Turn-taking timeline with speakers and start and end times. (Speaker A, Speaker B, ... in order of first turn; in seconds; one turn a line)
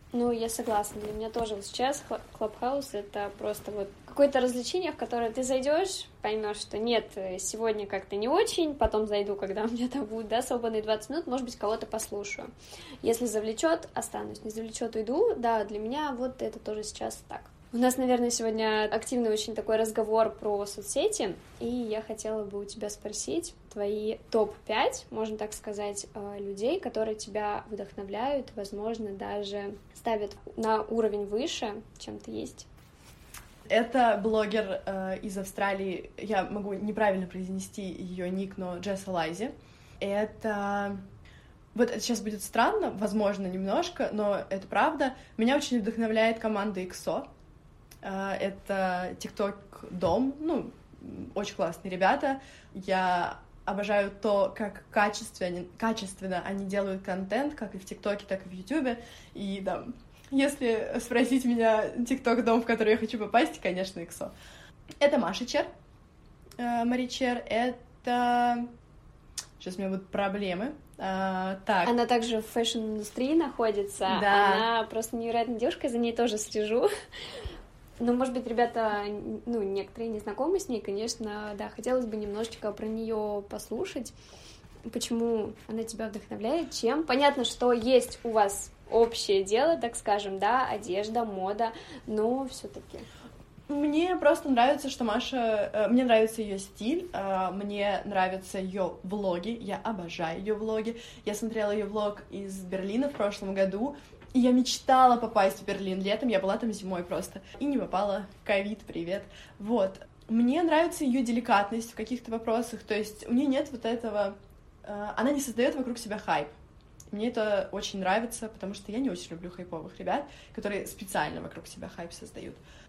Speaker A: 0.1-12.5
Speaker A: 13.0-32.7
Speaker B: 33.7-41.0
Speaker B: 41.7-47.3
Speaker B: 48.0-64.3
Speaker B: 65.0-65.7
Speaker B: 66.6-68.7
Speaker B: 69.6-71.9
Speaker A: 71.8-76.9
Speaker B: 74.1-74.7
Speaker A: 78.0-84.1
Speaker A: 84.9-93.1
Speaker B: 93.7-116.5
Speaker B: 117.1-122.6